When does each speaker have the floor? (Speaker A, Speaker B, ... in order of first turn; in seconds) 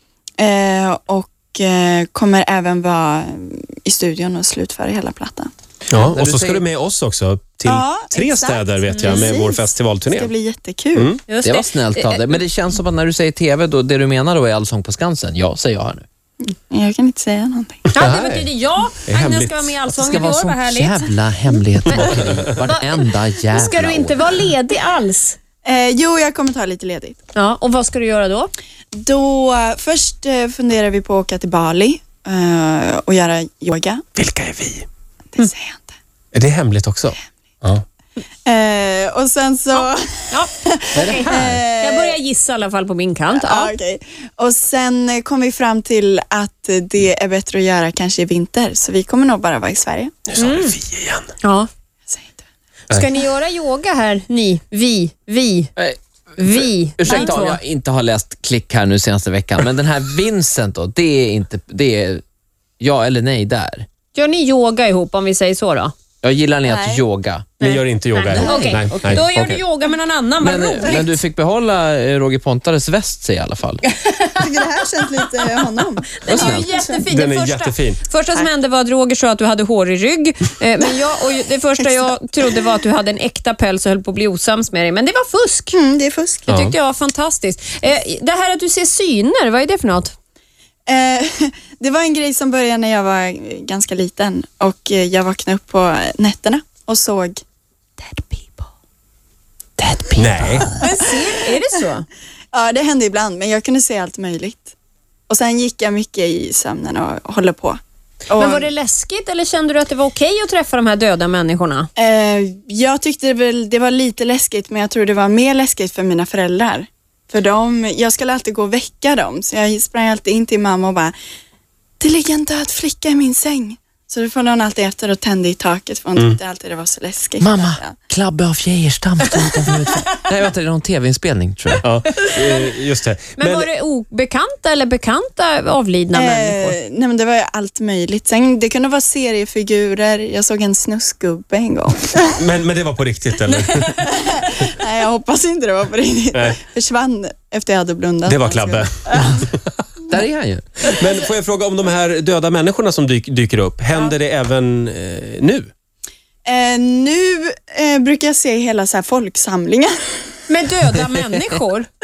Speaker A: 0.4-5.5, 7.6-11.1, 16.4-17.9, 25.6-27.1, 28.9-34.0, 35.4-35.9, 38.5-42.2, 43.3-50.2, 52.1-52.4, 57.0-57.4, 66.7-67.0, 74.3-77.0, 85.7-86.5, 90.9-97.4, 98.0-98.7, 99.8-101.3, 102.5-104.7, 105.3-107.8, 108.3-108.7, 112.0-121.1, 122.0-128.0, 136.1-142.4, 144.1-149.5, 156.4-159.9
Speaker B: 5.9-10.3, 10.9-11.2, 17.9-18.5, 19.1-19.8, 34.2-34.9, 36.3-37.2, 50.3-51.3, 67.6-69.2, 77.1-78.0, 86.5-86.7, 100.2-100.7, 131.8-133.7, 142.4-143.9, 148.2-149.8, 150.9-155.7
Speaker C: 6.0-6.6, 11.4-16.0, 19.9-24.2, 41.0-41.6, 55.8-62.2, 62.8-63.9, 66.2-67.5, 68.3-69.6, 70.4-73.8, 76.3-76.7, 127.4-131.8, 150.1-150.9
Speaker D: 8.8-9.3, 11.2-12.4, 17.9-21.1, 21.8-25.4, 27.3-28.5, 39.7-43.8, 50.4-50.8, 51.4-51.7, 52.9-55.7, 56.4-57.6, 64.1-65.9, 67.6-71.2, 73.9-75.6, 76.2-85.8, 86.5-90.1, 100.7-102.1, 108.3-111.9, 132.1-132.7, 133.4-136.8, 143.5-144.1, 160.5-161.9